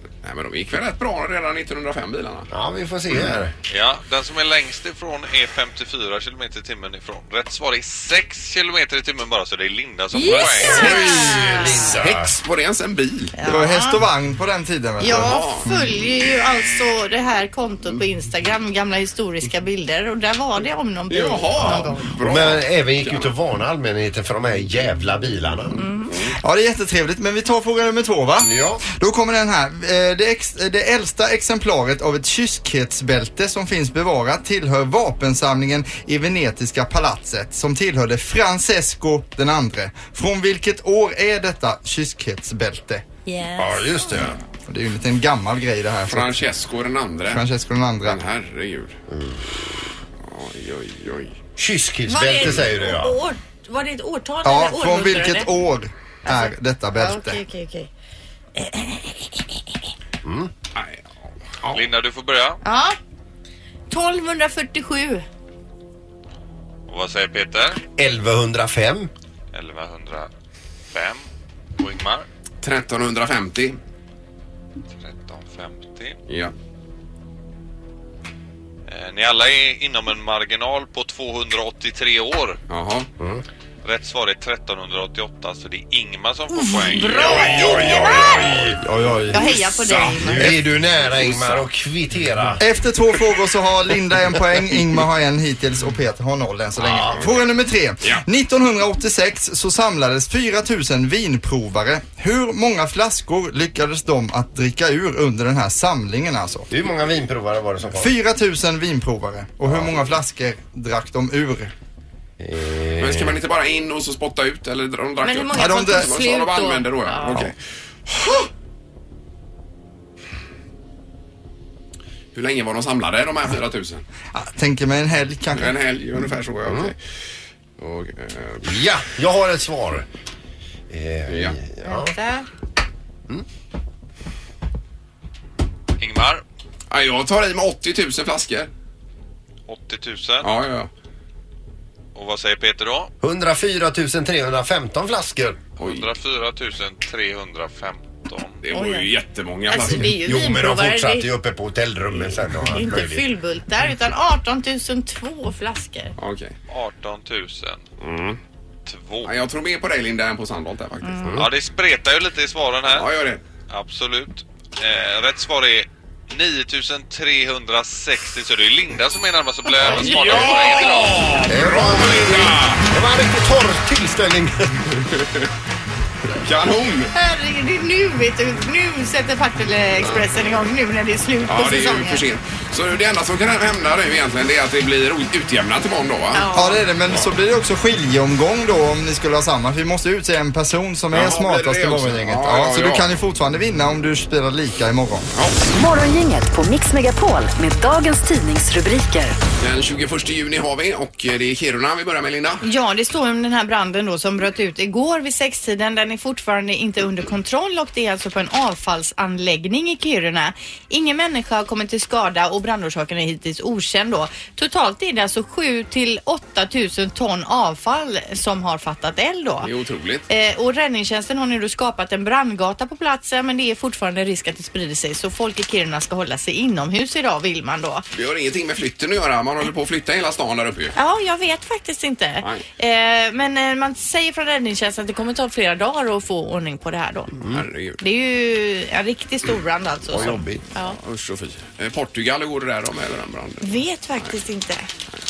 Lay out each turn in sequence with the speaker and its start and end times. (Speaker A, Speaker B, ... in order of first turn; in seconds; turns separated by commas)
Speaker A: 0.2-2.5, Speaker B: 2.5-3.5, Speaker C: 3.7-11.3, Speaker D: 10.1-11.9, Speaker B: 10.6-12.3, Speaker A: 10.8-13.4, Speaker D: 13.4-14.0, Speaker E: 13.4-15.8, Speaker D: 15.0-22.1, Speaker A: 15.1-15.7, Speaker A: 21.1-23.3, Speaker B: 21.7-25.8, Speaker D: 25.8-26.1, Speaker E: 26.4-43.0, Speaker B: 28.4-28.8, Speaker D: 43.3-43.9, Speaker B: 43.6-44.4, Speaker E: 44.6-46.4, Speaker A: 46.1-47.5, Speaker E: 47.3-48.2, Speaker A: 48.0-49.0, Speaker B: 49.1-49.4, Speaker A: 49.7-51.4, Speaker B: 51.6-53.2, Speaker D: 52.1-55.5, Speaker E: 54.5-57.4, Speaker D: 56.3-57.9, Speaker D: 58.6-59.3, Speaker B: 60.2-60.5, Speaker A: 60.8-61.0, Speaker C: 61.7-62.6, Speaker D: 62.6-63.0, Speaker D: 63.9-65.2, Speaker C: 66.9-67.8, Speaker B: 68.0-69.1, Speaker C: 69.5-70.3, Speaker C: 70.9-71.2, Speaker C: 71.8-72.3, Speaker A: 72.6-73.8, Speaker C: 74.9-76.2, Speaker A: 76.3-76.5, Speaker C: 78.9-82.6, Speaker A: 82.7-83.1, Speaker C: 83.8-87.9, Speaker D: 86.6-88.6, Speaker A: 86.9-88.7, Speaker E: 87.8-89.6, Speaker D: 89.3-90.6, Speaker A: 89.8-91.7, Speaker B: 90.3-92.6, Speaker E: 92.6-106.7, Speaker A: 96.8-97.4, Speaker B: 106.7-108.2, Speaker E: 108.0-111.7, Speaker B: 109.7-110.1, Speaker B: 112.4-113.4, Speaker A: 113.0-117.5, Speaker D: 115.2-117.4, Speaker E: 115.5-116.1, Speaker A: 122.3-124.1, Speaker E: 124.3-125.8, Speaker A: 125.5-127.0, Speaker B: 126.7-126.9, Speaker A: 127.8-128.8, Speaker B: 128.6-130.1, Speaker B: 130.9-132.1, Speaker A: 131.3-131.6, Speaker D: 131.8-132.5, Speaker C: 136.0-136.4, Speaker A: 136.9-138.7, Speaker C: 139.7-140.5, Speaker A: 140.4-140.9, Speaker C: 142.2-143.1, Speaker B: 143.2-145.6, Speaker A: 145.8-146.1, Speaker C: 145.8-148.6, Speaker A: 148.6-150.1, Speaker D: 148.7-149.1, Speaker D: 149.7-151.3, Speaker B: 149.9-153.3, Speaker D: 152.7-156.1, Speaker A: 156.2-156.6, Speaker C: 156.7-157.8, Speaker A: 158.0-158.4, Speaker C: 158.9-159.3, Speaker A: 159.2-161.4, Speaker C: 161.3-163.1, Speaker A: 162.9-163.4, Speaker C: 163.7-171.5, Speaker A: 169.8-172.8, Speaker B: 171.5-174.9, Speaker A: 175.0-175.5, Speaker A: 176.4-177.1, Speaker D: 177.1-182.2, Speaker A: 181.4-186.5, Speaker D: 186.3-186.8, Speaker E: 186.6-195.3, Speaker A: 191.1-193.1, Speaker A: 195.3-195.6, Speaker F: 195.7-199.4, Speaker A: 199.6-202.6, Speaker D: 202.6-219.7, Speaker A: 219.6-220.3, Speaker D: 220.3-228.1, Speaker A: 228.1-230.9, Speaker D: 231.0-237.3, Speaker A: 237.5-238.0, Speaker D: 238.0-241.0, Speaker B: 240.1-240.6, Speaker A: 241.0-243.8, Speaker D: 243.6-244.9